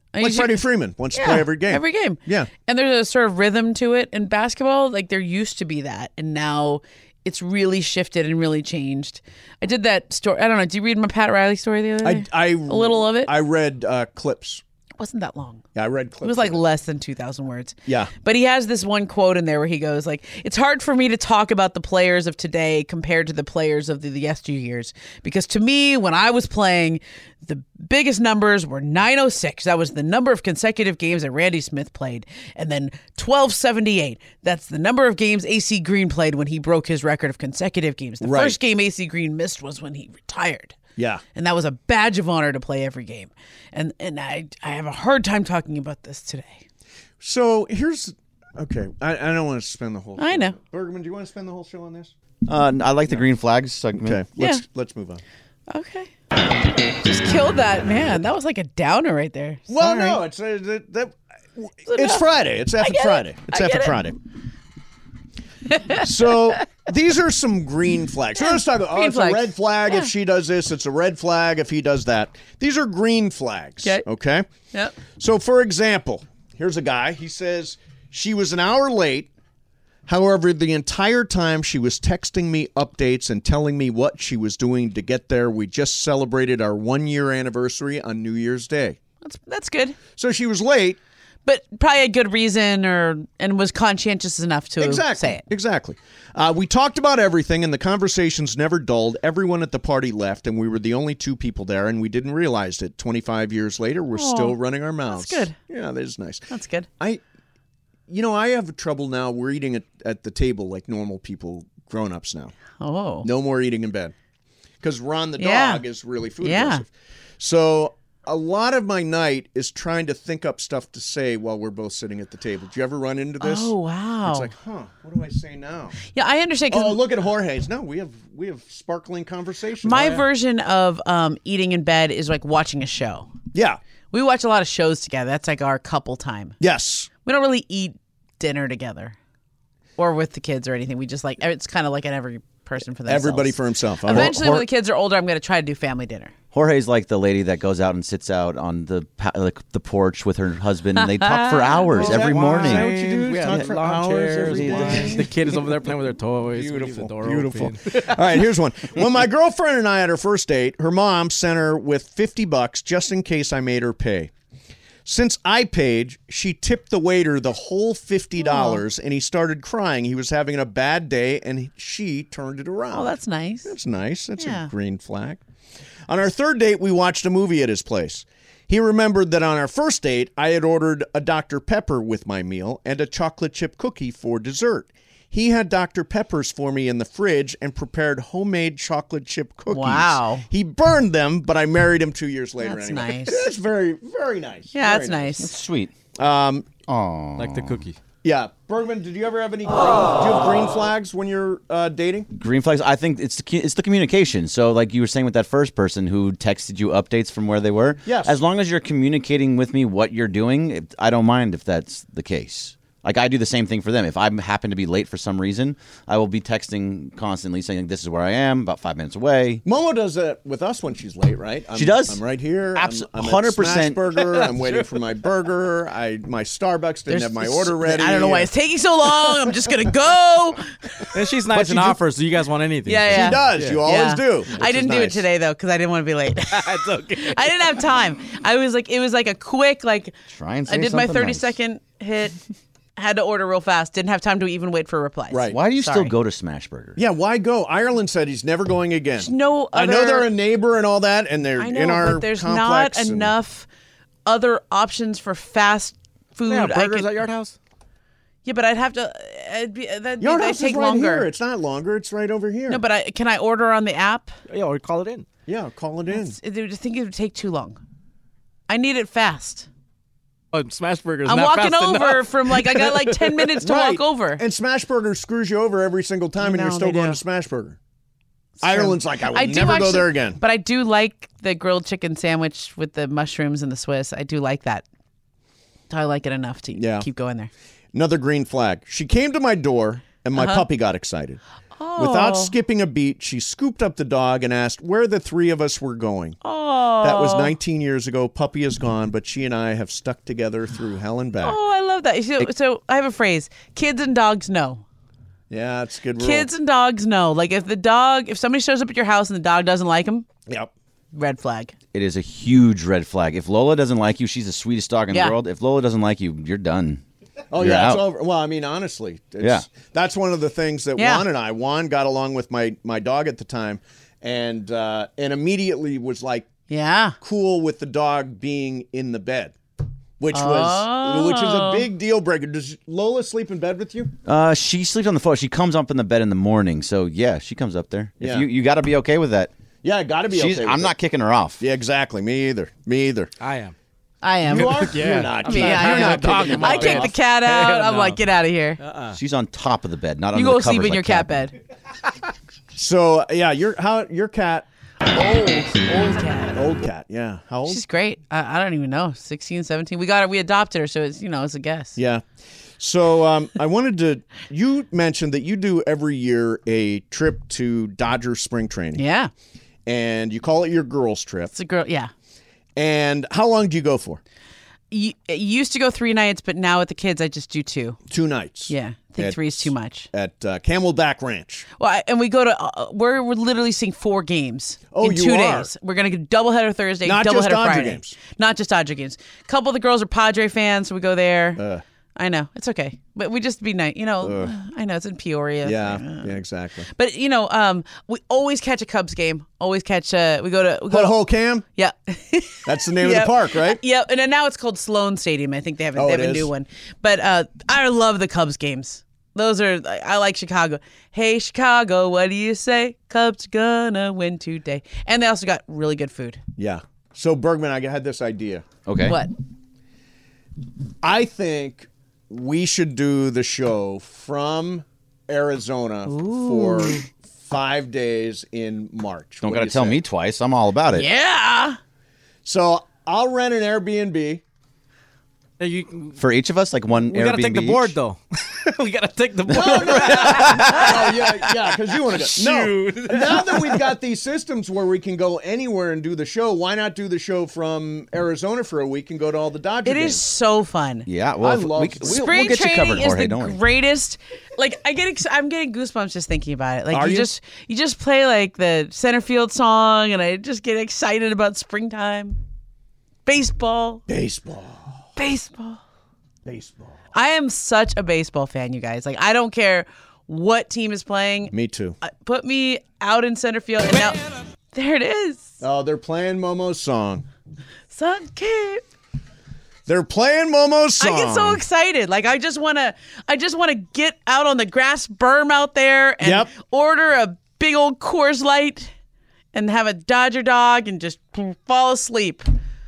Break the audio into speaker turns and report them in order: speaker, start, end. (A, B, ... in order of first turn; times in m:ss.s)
0:00.1-0:13.3 A
0:00.2-0:02.5 B
0:12.0-0:14.6 B
0:15.0-0:15.6 A
0:15.7-0:16.6 B
0:16.2-0:40.8 A
0:17.9-0:18.1 B
0:38.2-0:38.6 B
0:41.0-0:41.2 B
0:41.3-0:46.6 A
0:47.2-0:52.1 B
0:50.2-0:50.6 A
0:52.4-0:54.2 C
0:54.0-0:55.2 B
0:55.7-0:56.1 A
0:56.8-1:00.2 A
0:59.7-1:04.2 B
1:01.9-1:02.2 A
1:02.8-1:04.0 A
1:05.8-1:06.0 A
1:05.9-1:14.5 B
1:08.4-1:10.1 A
1:15.1-1:19.3 B
1:20.1-1:29.0 B
1:29.2-1:30.0 A
1:30.2-1:31.0 B
1:31.4-1:35.4 A
1:34.8-1:46.5 B
1:44.1-1:44.6 A
1:45.1-1:45.6 A
1:46.5-1:46.9 A
1:48.1-1:52.5 B
1:52.8-1:53.3 A
1:53.2-1:54.1 B
1:54.8-2:06.0 B
1:55.4-1:55.8 A
1:56.4-1:56.8 A
2:03.4-2:04.5 A
2:06.1-2:07.0 A
2:06.7-2:10.2 B
2:09.8-2:13.3 A
2:13.5-2:13.8 B
2:14.1-2:16.6 A
2:16.6-2:17.1 B
2:17.2-2:19.2 A
2:20.0-2:26.3 A
2:23.0-2:24.4 B
2:24.1-2:24.6 C
2:26.5-2:32.9 C
2:31.0-2:31.9 A
2:32.0-2:35.7 B
2:32.0-2:38.2 D
2:33.4-2:33.7 C
2:34.3-2:35.2 C
2:36.5-2:44.3 B
2:45.0-2:55.4 B
2:48.4-2:48.8 A
2:52.9-2:53.7 A
2:54.4-2:54.7 A
2:56.1-3:15.4 B
3:09.7-3:10.4 A
3:12.6-3:13.4 A
3:14.7-3:15.5 A
3:15.4-3:15.9 C
3:16.2-3:16.7 B
3:16.9-3:17.8 C
3:17.4-3:18.0 D
3:18.2-3:22.3 B
3:22.3-3:39.6 C
3:28.0-3:28.4 B
3:39.6-3:48.5 B
3:41.7-3:42.2 C
3:42.7-3:44.1 C
3:44.5-3:44.8 D
3:47.1-3:51.1 A
3:51.1-3:53.8 D
3:51.5-3:51.9 B
3:52.8-4:00.1 A
3:53.1-3:55.2 B
3:56.5-3:57.8 D
4:00.3-4:01.5 C
4:00.7-4:02.4 A
4:03.0-4:06.1 A
4:05.3-4:05.6 B
4:05.5-4:07.0 C
4:07.0-4:13.3 B
4:09.2-4:10.3 A
4:11.6-4:13.7 A
4:14.2-4:17.1 A
4:16.4-4:17.5 D
4:18.4-4:21.3 A
4:20.2-4:22.8 B
4:22.7-4:24.3 A
4:24.5-4:25.3 D
4:25.5-4:26.4 B
4:26.1-4:27.8 A
4:28.7-4:29.7 A
4:30.5-4:33.6 D
4:31.2-4:34.4 A
4:33.6-4:37.8 B
4:36.4-4:37.2 A
4:38.6-4:44.8 A
4:38.6-4:40.4 B
4:45.9-4:47.5 A
4:46.7-4:47.1 B
4:47.9-4:51.4 B
4:50.4-4:50.6 A
4:51.8-4:52.5 A
4:52.0-4:56.4 B
4:56.4-4:57.5 A
4:57.0-5:01.6 B
5:01.4-5:04.8 A
5:05.5-5:06.5 B
5:06.2-5:10.2 A
5:11.1-5:11.7 A
5:11.9-5:17.0 C
5:17.5-5:26.5 B
5:17.6-5:18.0 C
5:19.4-5:19.6 C
5:21.0-5:21.2 A
5:26.7-5:27.2 A
5:27.2-5:29.5 B
5:30.2-5:34.1 B
5:30.3-5:31.9 A
5:34.2-5:39.5 C
5:38.2-5:38.5 B
5:39.8-5:40.9 B
5:40.3-5:41.6 C
5:41.6-5:43.3 B
5:43.4-5:43.7 D
5:44.2-5:48.8 A
5:44.5-5:47.1 B
5:44.5-5:48.2 D
5:48.8-5:49.2 D
5:49.1-5:51.3 C
5:50.3-5:51.5 A
5:52.7-5:54.6 B
5:55.2-5:56.5 A
5:56.5-5:57.8 B
5:57.6-6:02.0 A
6:02.0-6:02.2 B
6:02.8-6:09.0 B
6:08.9-6:09.3 A
6:09.8-6:11.5 B
6:11.5-6:12.1 A
6:12.8-6:14.2 B
6:14.9-6:18.0 A
6:18.1-6:21.6 B
6:18.7-6:20.1 A
6:21.8-6:31.6 A
6:24.9-6:25.7 B
6:27.0-6:28.2 B
6:31.6-6:31.8 B
6:32.2-6:36.4 A
6:34.2-6:34.5 B
6:35.6-6:36.9 B
6:36.9-6:41.2 A
6:40.9-6:41.6 B
6:41.7-6:56.4 A
6:42.6-6:43.8 B
6:46.0-6:46.5 B
6:56.6-6:58.6 B
6:58.8-6:59.2 C
6:59.0-6:59.3 A
7:01.0-7:10.0 B
7:06.0-7:07.1 A
7:09.4-7:11.1 C
7:10.9-7:11.8 A
7:12.4-7:14.4 B
7:15.6-7:16.2 D
7:16.2-7:18.0 C
7:17.0-7:24.0 D
7:19.5-7:20.8 C
7:19.5-7:30.2 B
7:29.8-7:31.1 A
7:31.0-7:33.6 C
7:31.4-7:32.6 B
7:32.0-7:42.4 A
7:36.9-7:37.3 B
7:43.2-7:44.0 A
7:44.1-7:45.0 B
7:45.2-7:45.8 A
7:46.4-7:47.0 B
7:47.1-7:54.2 A
7:51.5-7:52.0 B
7:54.7-7:55.6 A
7:55.6-7:57.2 B
7:57.9-7:58.8 A
7:59.8-8:01.6 B
8:01.0-8:08.9 A
8:06.2-8:06.5 B
8:09.5-8:12.5 A